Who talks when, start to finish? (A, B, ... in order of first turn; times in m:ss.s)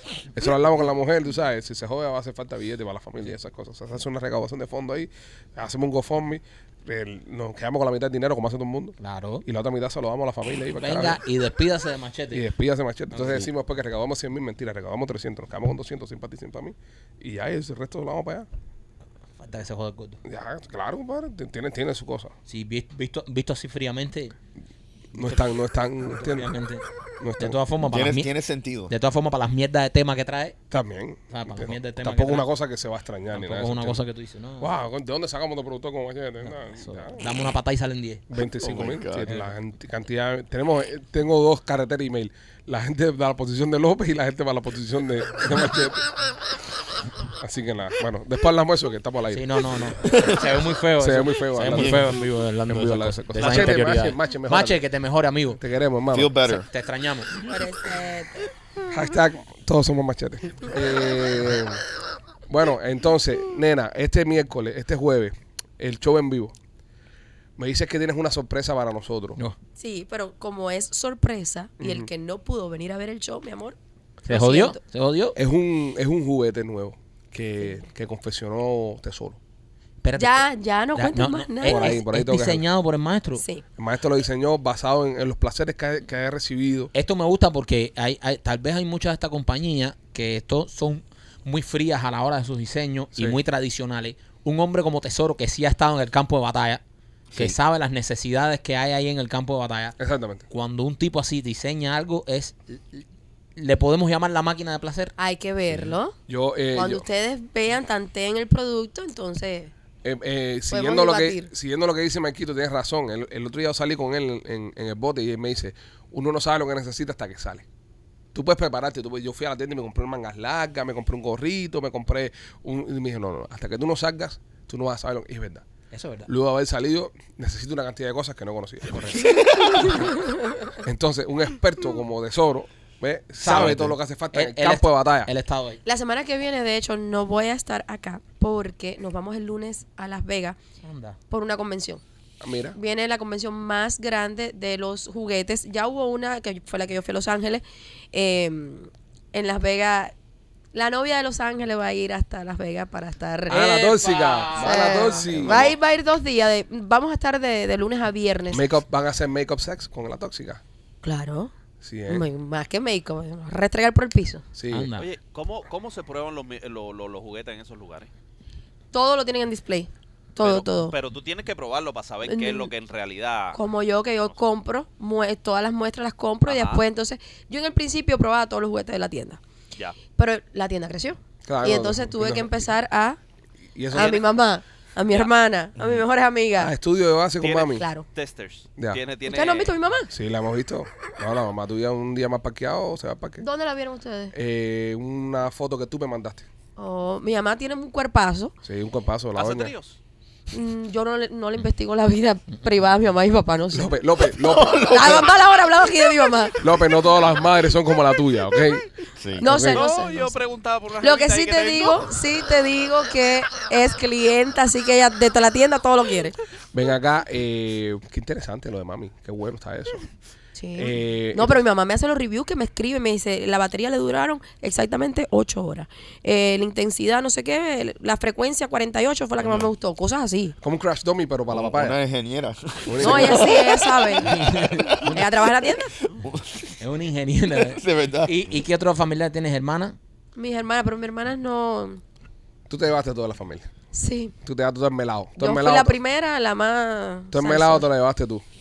0:00.3-0:11.2 A
0:09.0-0:09.4 B
0:10.8-0:12.5 B
0:12.3-0:18.5 A
0:13.1-0:13.5 B
0:19.4-0:20.2 B
0:20.2-0:22.3 A
0:22.5-0:24.3 B
0:25.1-0:26.5 A
0:25.2-0:25.5 B
0:26.1-0:26.8 B
0:27.2-0:27.6 A
0:27.4-0:28.3 B
0:27.8-0:28.9 C
0:28.9-0:30.6 B
0:30.7-0:34.0 A
0:31.3-0:32.5 B
0:33.3-0:34.7 B
0:34.6-0:37.2 A
0:36.4-0:38.2 B
0:38.3-0:46.1 A
0:38.6-0:39.4 C
0:47.4-0:49.4 A
0:49.3-0:55.6 B
0:50.0-0:50.5 C
0:51.0-0:54.8 A
0:51.7-0:52.1 C
0:53.4-0:53.8 D
0:55.6-0:56.3 A
0:56.1-0:56.7 C
0:56.4-0:57.4 B
0:57.5-0:58.5 E
0:58.9-1:01.8 A
1:02.5-1:06.5 A
1:07.6-1:09.4 A
1:09.8-1:13.8 E
1:11.8-1:12.1 A
1:14.3-1:15.4 B
1:14.3-1:14.8 E
1:15.4-1:19.4 A
1:20.0-1:23.4 B
1:20.2-1:22.0 E
1:21.6-1:22.6 A
1:23.4-1:23.6 E
1:23.8-1:26.9 A
1:26.9-1:36.8 B
1:37.3-1:40.0 B
1:40.0-1:40.4 A
1:40.5-1:43.0 B
1:43.6-1:45.1 B
1:45.2-1:46.2 E
1:46.3-1:47.0 A
1:46.8-1:49.7 E
1:50.0-1:57.6 A
1:50.7-1:51.5 E
1:58.3-2:05.6 A
2:05.9-2:06.3 B
2:06.3-2:09.3 A
2:10.8-2:15.3 A
2:13.4-2:15.8 B
2:15.8-2:20.6 E
2:20.8-2:21.2 B
2:21.3-2:22.0 E
2:22.4-2:22.8 A
2:22.7-2:30.1 E
2:30.7-2:33.6 E
2:33.5-2:35.7 A
2:33.5-2:35.6 B
2:34.6-2:38.7 E
2:38.5-2:40.6 A
2:41.0-2:41.5 E
2:41.8-2:42.2 A
2:42.1-2:44.4 E
2:44.6-2:44.9 A
2:44.7-2:45.1 B
2:45.0-2:48.1 D
2:48.9-2:50.9 E
2:50.4-2:53.6 D
2:52.2-2:52.7 E
2:53.5-2:59.4 E
2:56.5-2:56.8 D
3:00.2-3:03.2 E
3:01.4-3:02.6 A
3:03.8-3:04.2 A
3:03.9-3:06.7 E
3:04.0-3:04.2 D
3:06.6-3:07.8 A
3:07.4-3:09.8 D
3:07.8-3:08.1 E
3:09.3-3:10.1 E
3:10.1-3:13.4 A
3:13.4-3:14.4 E
3:14.3-3:16.5 A
3:16.8-3:18.5 E
3:18.6-3:19.7 A
3:19.4-3:20.0 D
3:20.5-3:23.9 E
3:23.7-3:25.3 A
3:24.3-3:25.3 C
3:24.8-3:26.6 E
3:26.6-3:29.8 A
3:29.2-3:29.5 C
3:29.4-3:30.4 E
3:29.7-3:32.1 D
3:31.0-3:36.4 E
3:36.7-3:40.1 A
3:40.6-3:50.6 E
3:40.8-3:41.6 A
3:50.6-3:52.0 A
3:51.5-3:55.2 C
3:52.9-3:53.5 A
3:53.0-3:54.4 E
3:54.3-3:55.3 B
3:55.0-3:55.9 E
3:56.1-3:56.8 C
3:56.8-4:00.0 B
3:57.5-3:58.5 C
4:00.4-4:02.0 E
4:02.7-4:03.7 A
4:03.9-4:04.3 E
4:04.4-4:06.0 A
4:05.4-4:07.9 E
4:07.3-4:08.4 A